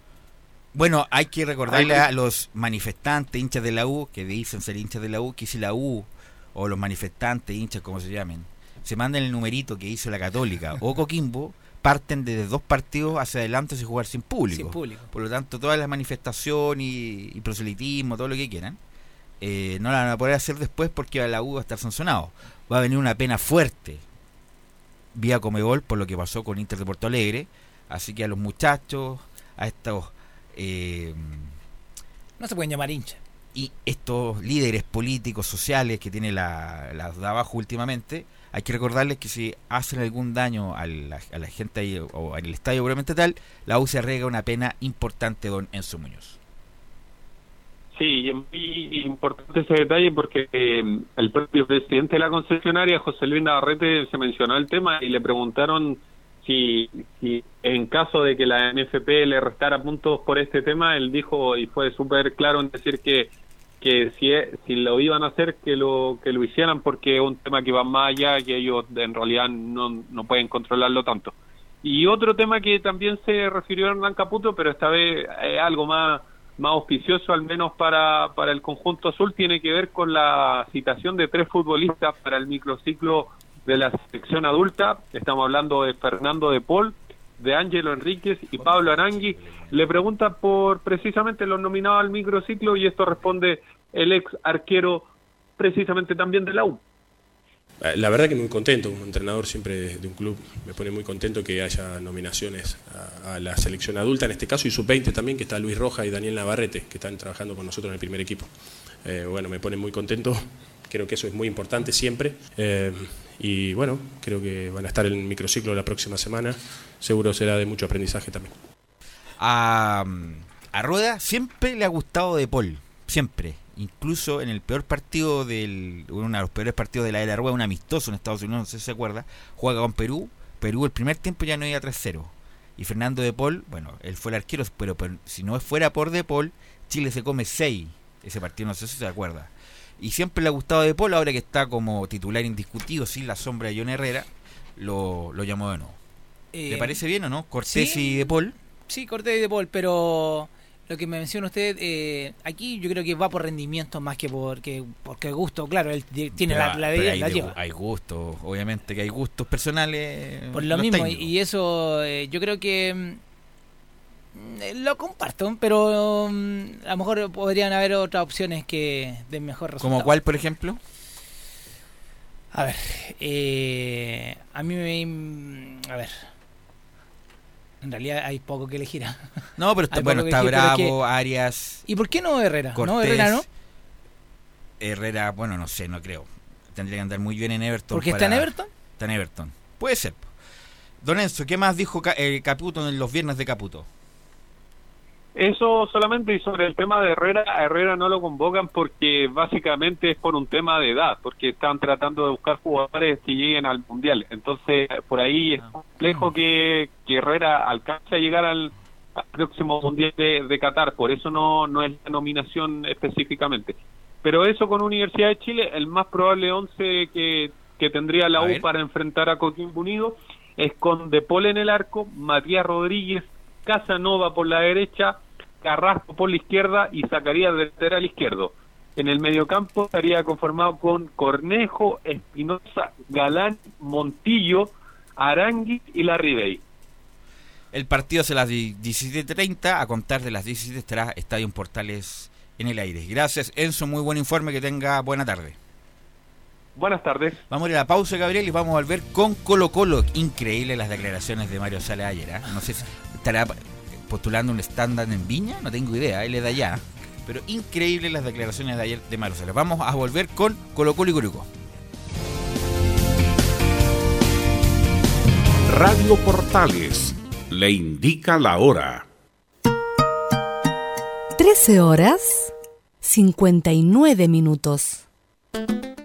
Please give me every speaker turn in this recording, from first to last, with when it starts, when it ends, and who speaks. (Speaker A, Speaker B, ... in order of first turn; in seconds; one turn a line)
Speaker A: 0.8-18.8
Speaker B: 14.5-15.1
Speaker A: 19.4-24.0
Speaker A: 25.1-31.6
Speaker B: 32.4-33.2
Speaker A: 33.5-46.4
Speaker C: 47.9-96.8
Speaker A: 88.6-89.8
Speaker D: 97.8-108.5
Speaker D: 109.0-118.5
Speaker A: 119.4-146.0
Speaker B: 146.5-147.0
Speaker A: 146.7-148.5
Speaker B: 147.7-148.3
Speaker B: 148.9-157.5
Speaker A: 156.4-161.3
Speaker B: 160.5-163.2
Speaker B: 164.3-170.1
Speaker A: 169.8-170.8
Speaker B: 172.5-176.2
Speaker B: 177.8-180.9
Speaker A: 179.6-181.8
Speaker B: 181.9-183.4
Speaker A: 182.7-183.4
Speaker A: 184.8-190.3
Speaker B: 187.9-188.7
Speaker A: 191.0-193.9
Speaker C: 195.3-236.6
Speaker A: 218.3-218.7
Speaker A: 237.7-245.6
Speaker C: 246.8-247.4
Speaker A: 247.5-261.5
Speaker E: 265.7-268.8
Speaker F: 271.4-275.0